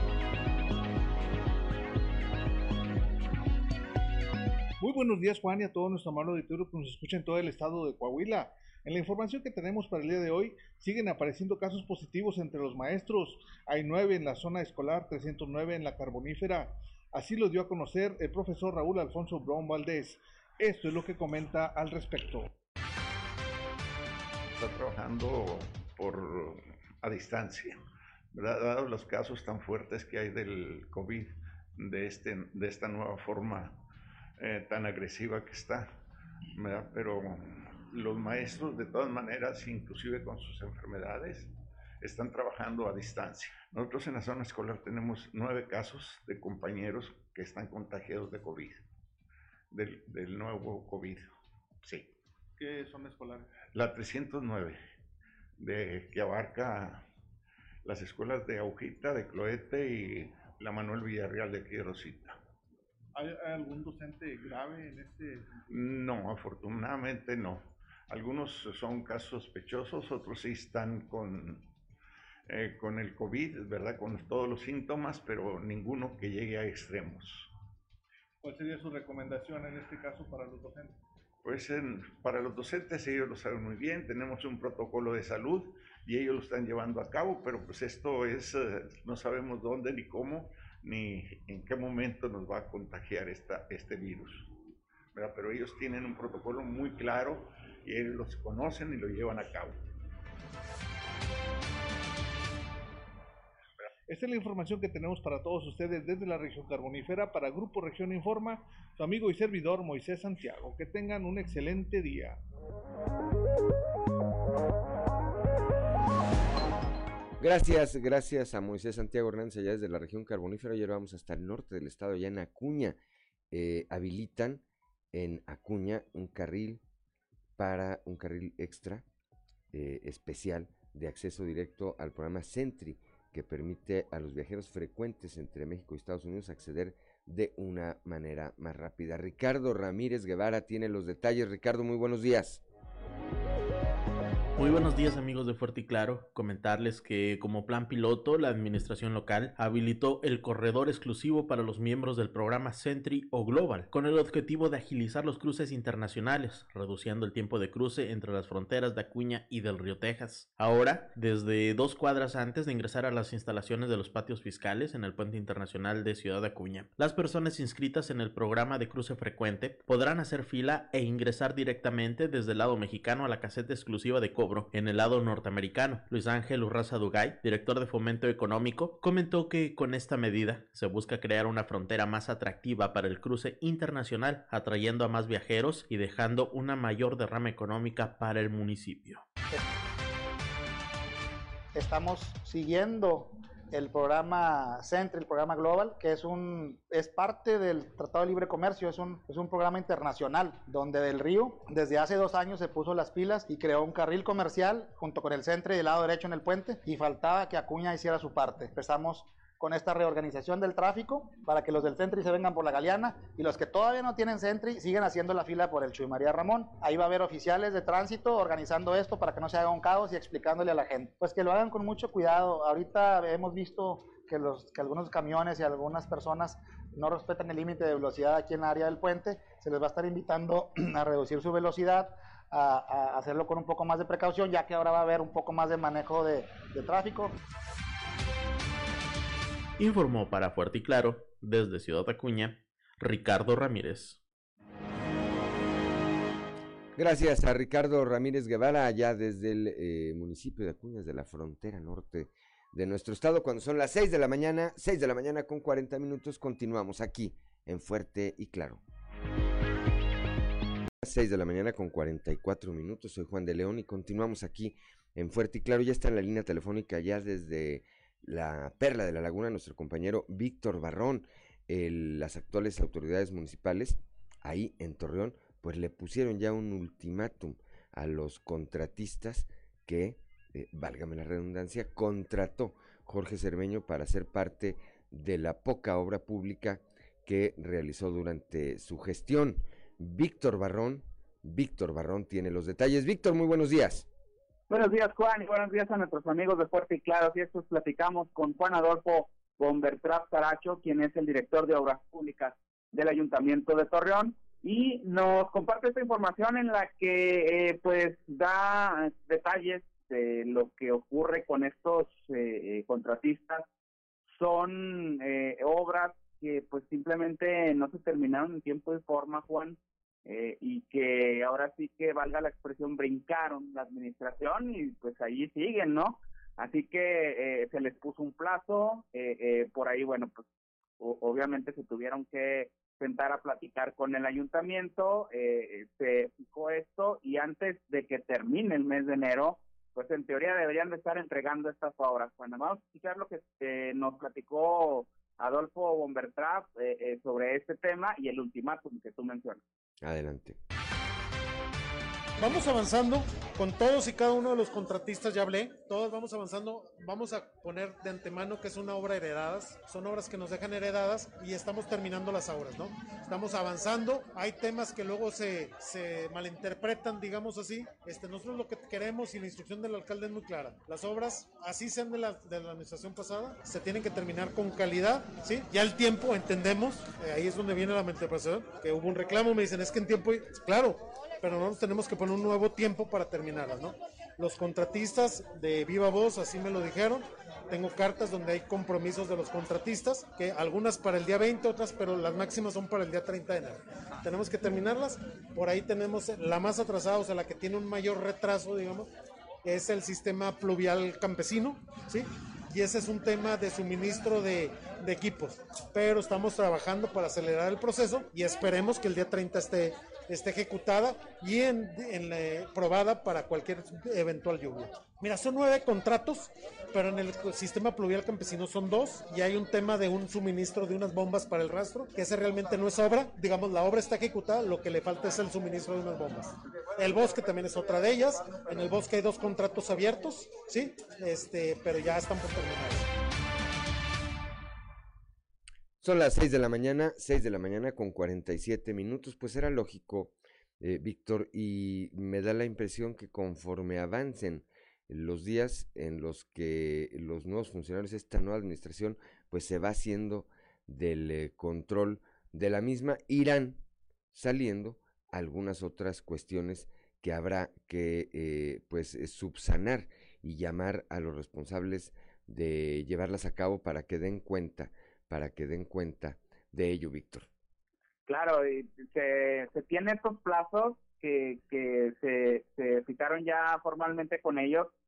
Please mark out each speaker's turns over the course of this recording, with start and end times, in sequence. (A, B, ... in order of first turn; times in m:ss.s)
0:04.8-0:22.5 A
0:24.5-0:27.8 B
0:28.3-0:33.8 B
0:34.4-0:36.0 B
0:36.6-0:48.8 B
0:49.7-0:51.3 B
0:51.8-0:52.1 B
0:52.6-0:53.5 A
0:53.7-0:54.8 B
0:55.6-0:57.0 B
0:57.8-1:02.4 B
1:03.2-1:05.6 A
1:05.7-1:11.7 B
1:12.5-1:17.5 B
1:18.4-1:21.0 A
1:21.4-1:34.5 B
1:35.2-1:39.8 B
1:44.1-1:52.4 A
1:57.4-2:03.0 C
2:03.5-2:04.6 C
2:05.1-2:06.8 C
2:07.6-2:09.0 C
2:09.7-2:22.6 C
2:24.6-3:09.2 D
3:11.8-3:57.3 E
3:59.8-4:04.2 D
4:07.0-4:18.8 C
4:21.0-4:54.1 C
4:54.7-5:13.7 F
5:14.3-5:30.4 F
5:31.0-5:49.6 F
5:50.0-5:50.6 C
5:52.4-6:39.1 G
6:39.6-7:13.1 G
7:16.0-7:33.8 C
7:34.3-7:47.5 C
7:48.3-7:54.9 F